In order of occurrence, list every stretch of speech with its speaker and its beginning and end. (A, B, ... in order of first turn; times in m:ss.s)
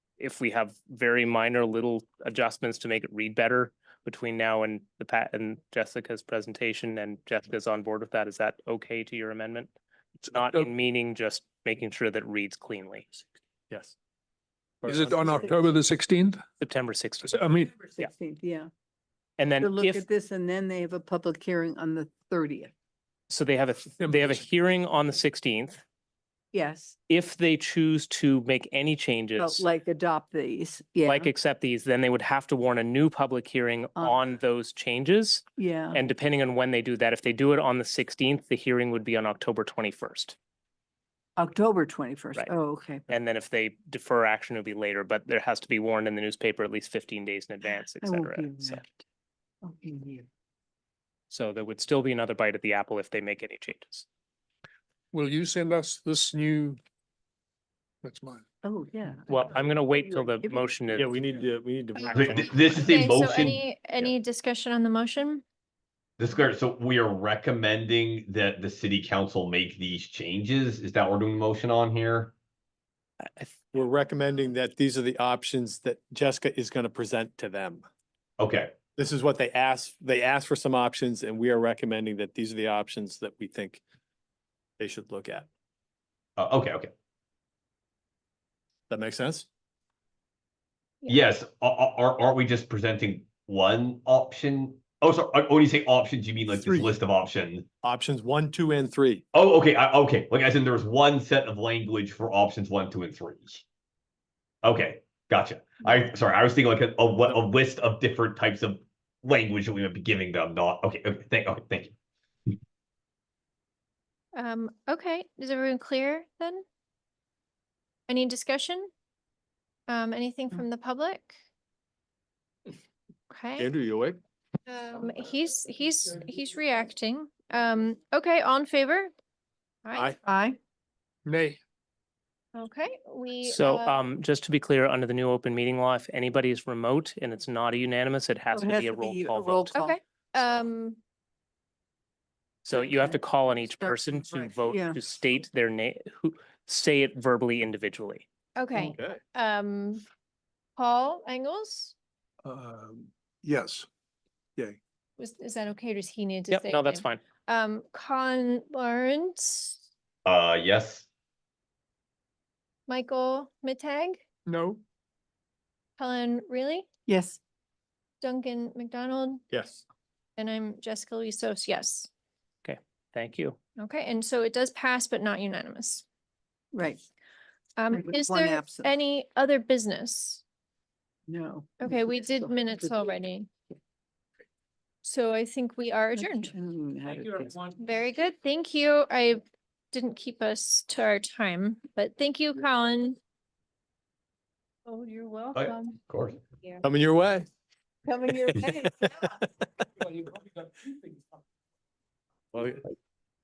0:00.2-0:09.7 A
0:10.3-0:10.7 B
0:10.3-0:13.1 A
0:13.7-0:13.9 C
0:14.8-0:15.4 C
0:14.8-0:16.4 B
0:15.1-0:15.7 D
0:16.6-0:17.4 A
0:17.2-0:17.7 B
0:17.7-0:18.7 D
0:19.4-0:20.0 A
0:19.6-0:22.7 D
0:23.3-0:25.8 A
0:24.0-0:24.4 B
0:26.5-0:27.0 D
0:27.1-0:29.6 A
0:29.4-0:31.3 D
0:31.0-0:40.4 A
0:35.6-0:36.0 D
0:41.4-0:43.0 D
0:43.1-0:48.8 A
0:48.0-0:49.0 D
0:49.6-0:50.2 D
0:51.3-0:54.0 A
0:55.1-0:56.8 B
0:58.0-0:58.4 B
0:58.6-1:00.7 D
0:59.3-1:01.3 A
1:00.9-1:02.8 C
1:02.0-1:05.4 E
1:02.1-1:03.6 F
1:06.2-1:12.3 F
1:13.3-1:13.5 A
1:13.7-1:17.8 C
1:18.4-1:18.7 F
1:19.0-1:23.8 C
1:24.8-1:25.5 C
1:26.4-1:26.9 F
1:28.9-1:29.5 C
1:31.1-1:37.6 F
1:37.8-1:39.2 C
1:39.3-1:43.6 F
1:44.6-1:51.9 F
1:54.3-1:56.6 E
1:58.1-1:58.9 E
1:59.9-2:01.4 E
2:03.3-2:03.7 E
2:03.6-2:04.2 C
2:04.7-2:09.1 E
2:09.8-2:10.2 E
2:10.2-2:10.6 D
2:11.2-2:11.6 B
2:12.5-2:14.0 E
2:13.4-2:19.8 A
2:18.5-2:20.0 D
2:19.7-2:21.0 E
2:22.6-2:28.2 A
2:22.7-2:25.0 D
2:28.6-2:30.0 E
2:28.7-2:29.2 C
2:30.8-2:31.9 E
2:32.4-2:33.9 B
2:35.2-2:39.8 E
2:36.5-2:37.2 A
2:40.2-2:41.0 F
2:42.9-2:44.2 E
2:44.5-2:44.8 B
2:46.0-2:46.9 E
2:47.1-2:47.4 D
2:48.2-2:49.4 E
2:49.5-2:49.8 C
2:50.4-2:52.1 E
2:52.6-2:53.6 A
2:53.8-2:56.0 E
2:56.7-2:57.0 D
2:57.8-3:00.4 E
2:57.9-2:58.9 D
3:01.3-3:03.1 D
3:01.8-3:03.5 E
3:05.0-3:06.5 E
3:06.2-3:07.5 D
3:07.1-3:07.8 A
3:07.8-3:13.2 E
3:14.8-3:16.0 E
3:15.5-3:16.4 F
3:16.8-3:17.5 C
3:18.0-3:19.2 D
3:18.8-3:19.5 C
3:20.0-3:21.4 B
3:22.5-3:22.8 C